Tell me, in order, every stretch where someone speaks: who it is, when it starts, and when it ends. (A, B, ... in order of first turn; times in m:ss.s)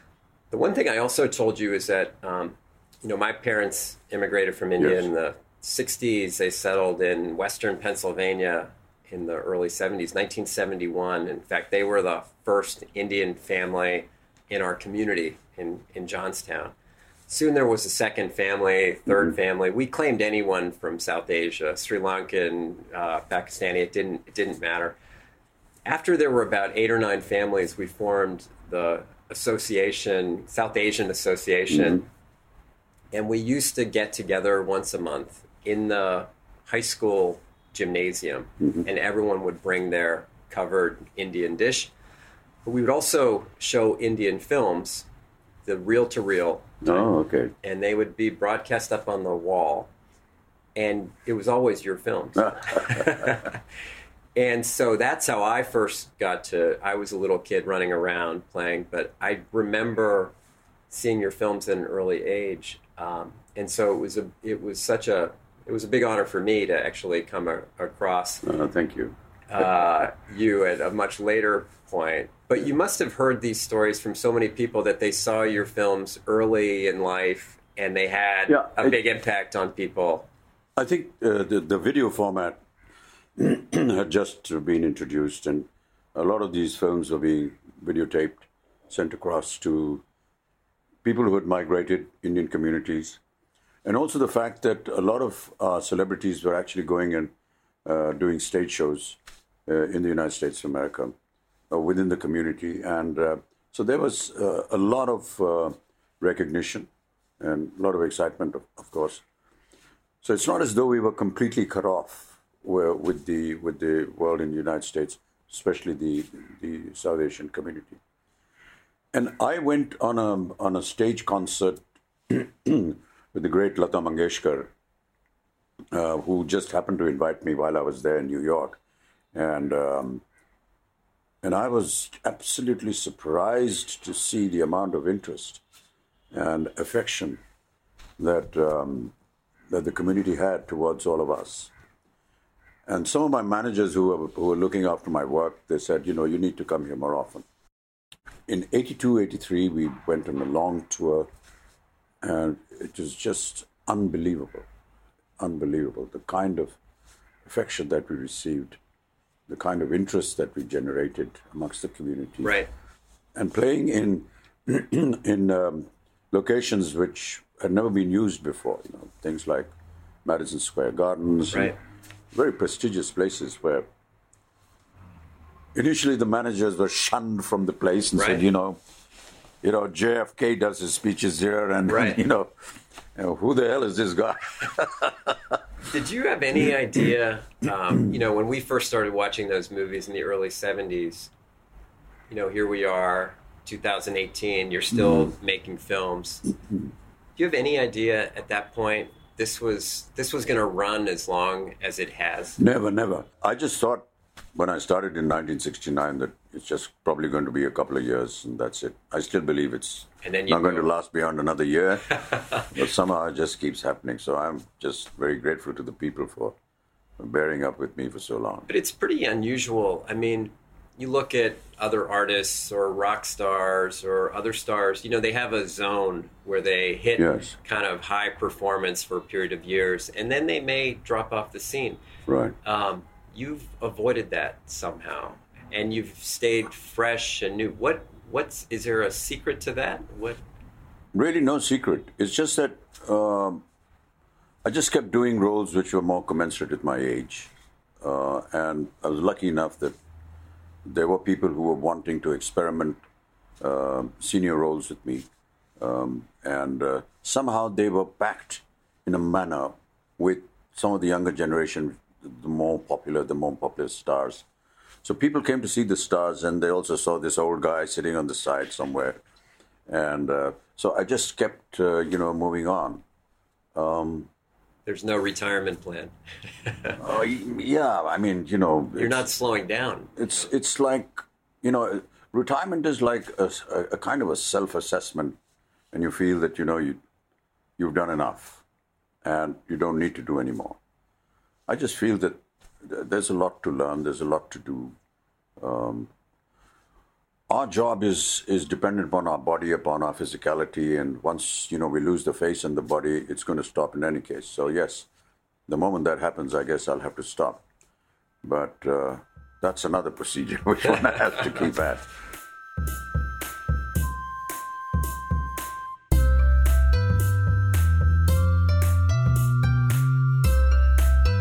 0:00.5-0:16.8 A
0:04.8-0:05.0 B
0:17.3-0:25.0 A
0:25.8-0:32.1 A
0:31.7-0:32.0 B
0:33.1-0:41.9 A
0:42.6-0:45.1 A
0:45.6-0:47.1 A
0:46.8-0:47.5 B
0:47.6-0:49.9 A
0:50.8-0:53.6 A
0:52.4-0:53.5 B
0:54.4-1:00.3 A
1:00.9-1:08.4 A
1:08.4-1:09.2 B
1:09.5-1:20.3 A
1:18.5-1:19.0 B
1:20.8-1:22.6 B
1:23.4-1:30.0 B
1:31.0-1:33.2 B
1:33.8-1:37.3 B
1:37.8-1:41.2 B
1:41.7-1:49.2 B
1:50.2-1:58.0 B
1:59.1-2:04.7 B
2:05.9-2:08.8 B
2:09.3-2:10.2 B
2:11.4-2:15.6 B
2:16.3-2:17.4 B
2:18.2-2:19.1 B
2:19.7-2:21.7 B
2:22.9-2:27.5 B
2:28.5-2:31.3 B
2:32.2-2:34.7 B
2:35.4-2:36.8 B
2:37.4-2:38.8 B
2:39.5-2:42.5 B
2:42.4-2:42.7 A
2:43.4-2:49.7 B
2:50.2-2:51.7 B
2:52.3-2:53.9 B
2:55.8-2:58.8 B
2:58.2-2:58.4 A
2:59.6-3:05.6 B
3:01.9-3:02.2 A
3:05.9-3:11.3 A
3:12.3-3:16.4 A
3:14.9-3:15.3 B
3:17.4-3:22.6 A
3:22.6-3:36.6 B
3:30.2-3:30.9 A
3:32.3-3:32.6 A
3:37.2-3:38.7 B
3:38.7-3:52.0 A
3:47.2-3:47.5 B
3:52.3-3:52.5 B
3:52.6-4:00.4 A
4:01.1-4:03.6 B
4:04.6-4:07.5 B
4:08.0-4:10.0 B
4:10.8-4:13.0 B
4:13.6-4:15.3 B
4:15.8-4:24.5 B
4:25.0-4:29.2 B
4:29.9-4:33.0 B
4:33.8-4:34.3 B
4:34.9-4:37.0 A
4:37.0-4:39.3 B
4:39.0-4:40.4 A
4:40.2-4:45.4 B
4:45.9-4:47.0 B
4:47.8-4:48.6 B
4:49.2-4:50.8 B
4:51.7-4:55.0 B
4:55.6-4:56.1 B
4:57.5-5:05.1 B
5:05.7-5:07.6 B
5:08.4-5:12.1 B